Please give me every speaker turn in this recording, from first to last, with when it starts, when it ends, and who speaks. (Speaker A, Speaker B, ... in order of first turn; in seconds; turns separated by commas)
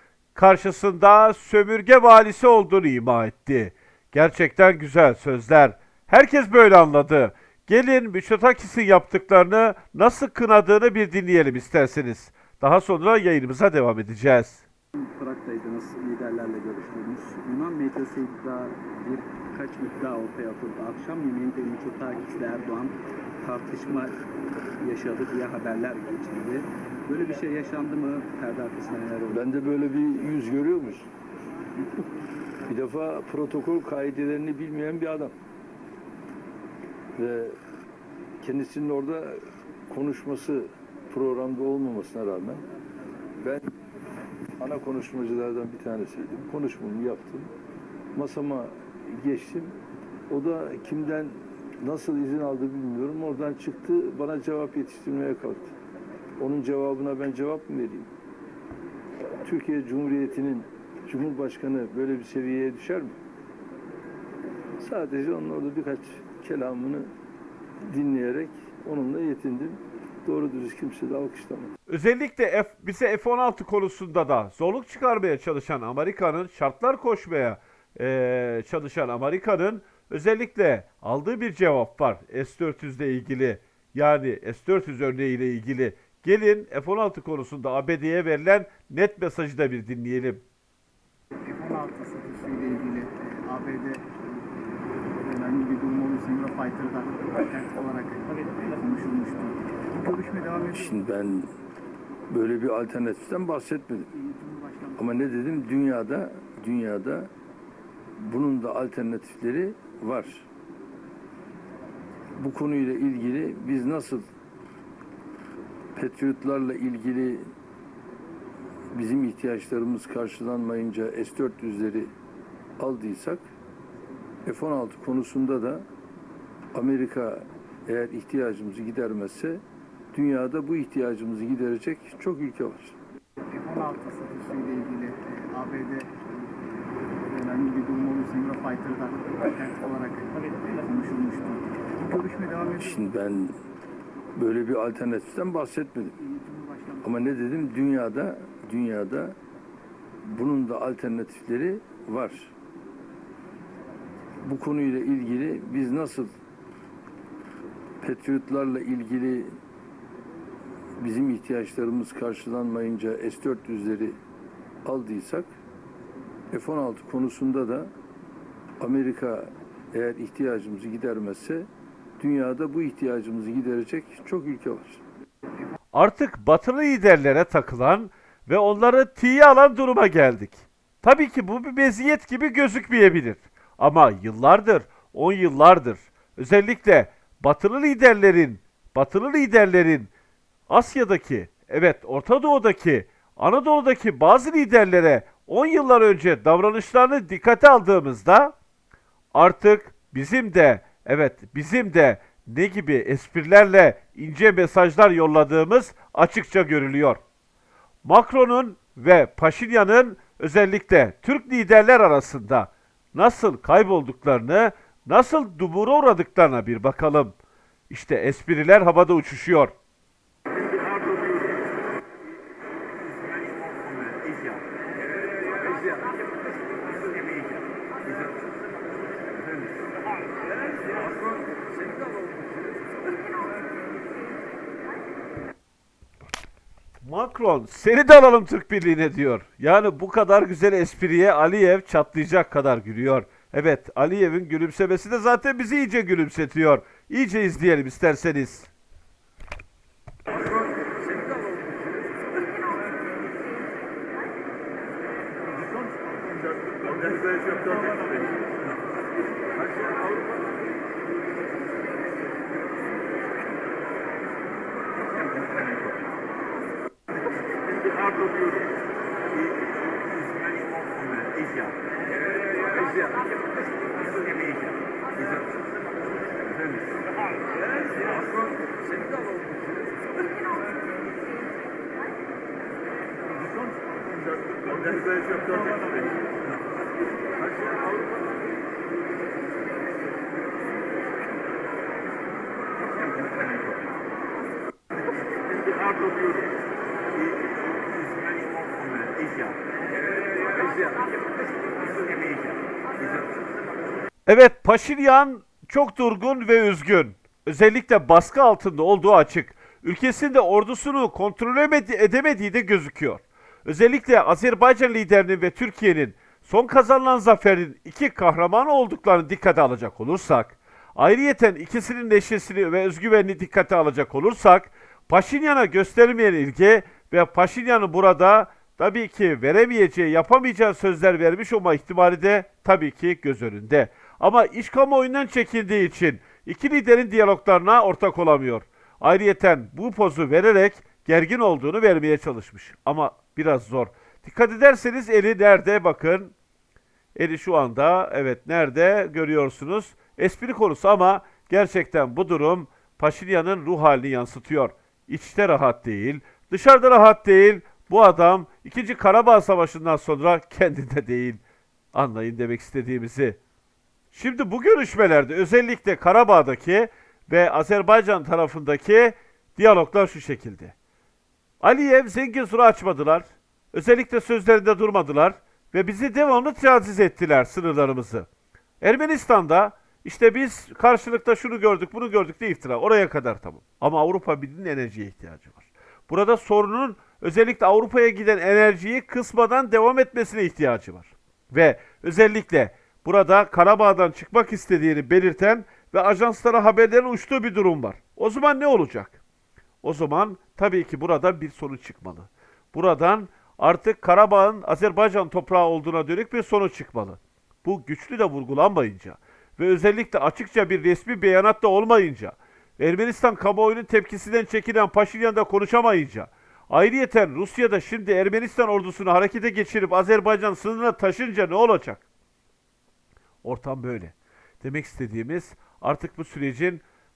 Speaker A: 0.3-14.6, Speaker B: 15.0-24.2, Speaker B: 24.8-29.4, Speaker C: 29.3-31.1, Speaker C: 32.7-35.3, Speaker C: 37.1-37.6, Speaker C: 38.4-42.6, Speaker C: 43.4-43.7, Speaker C: 44.6-47.5, Speaker C: 48.1-49.8, Speaker C: 50.3-55.7, Speaker C: 56.4-58.1, Speaker C: 59.4-63.2, Speaker C: 64.8-67.1, Speaker C: 67.9-71.7, Speaker A: 71.9-90.4, Speaker D: 91.4-94.7, Speaker D: 95.2-100.8, Speaker C: 100.7-101.5, Speaker C: 102.3-104.1, Speaker D: 104.3-104.9, Speaker C: 105.0-107.3, Speaker C: 108.2-110.5, Speaker C: 112.4-114.2, Speaker C: 116.0-117.5, Speaker C: 118.9-122.1, Speaker C: 122.8-123.5, Speaker C: 124.5-125.8, Speaker C: 126.7-129.6, Speaker C: 130.1-133.0, Speaker D: 133.5-142.9, Speaker C: 142.8-143.6, Speaker C: 144.3-146.2, Speaker D: 146.3-147.0, Speaker C: 147.0-149.4, Speaker C: 150.2-152.5, Speaker C: 154.4-156.3, Speaker C: 158.0-159.6, Speaker C: 161.0-164.2, Speaker C: 164.8-165.5, Speaker C: 166.5-167.9, Speaker C: 168.8-171.7, Speaker C: 172.2-175.0, Speaker A: 175.9-190.1, Speaker A: 190.7-198.5, Speaker A: 199.3-207.2, Speaker A: 208.0-217.3, Speaker A: 217.9-219.7, Speaker B: 220.8-221.3, Speaker B: 223.3-224.6, Speaker B: 225.4-226.2, Speaker B: 226.7-227.5, Speaker B: 230.7-233.5, Speaker A: 237.0-248.7, Speaker B: 250.6-251.6, Speaker B: 252.4-252.7, Speaker B: 257.3-257.9, Speaker B: 259.7-260.2, Speaker B: 267.9-268.5, Speaker B: 270.7-271.6, Speaker B: 272.6-273.3, Speaker B: 274.1-274.5, Speaker B: 277.9-279.5, Speaker B: 285.2-285.6, Speaker B: 287.5-288.0, Speaker B: 293.1-293.6, Speaker B: 295.9-296.1, Speaker B: 298.5-299.3, Speaker B: 300.4-301.0, Speaker A: 304.3-346.3, Speaker A: 347.1-361.4, Speaker A: 361.9-363.4, Speaker A: 364.1-370.7, Speaker A: 371.6-378.3, Speaker A: 378.8-399.2, Speaker A: 399.8-422.0, Speaker A: 423.4-426.8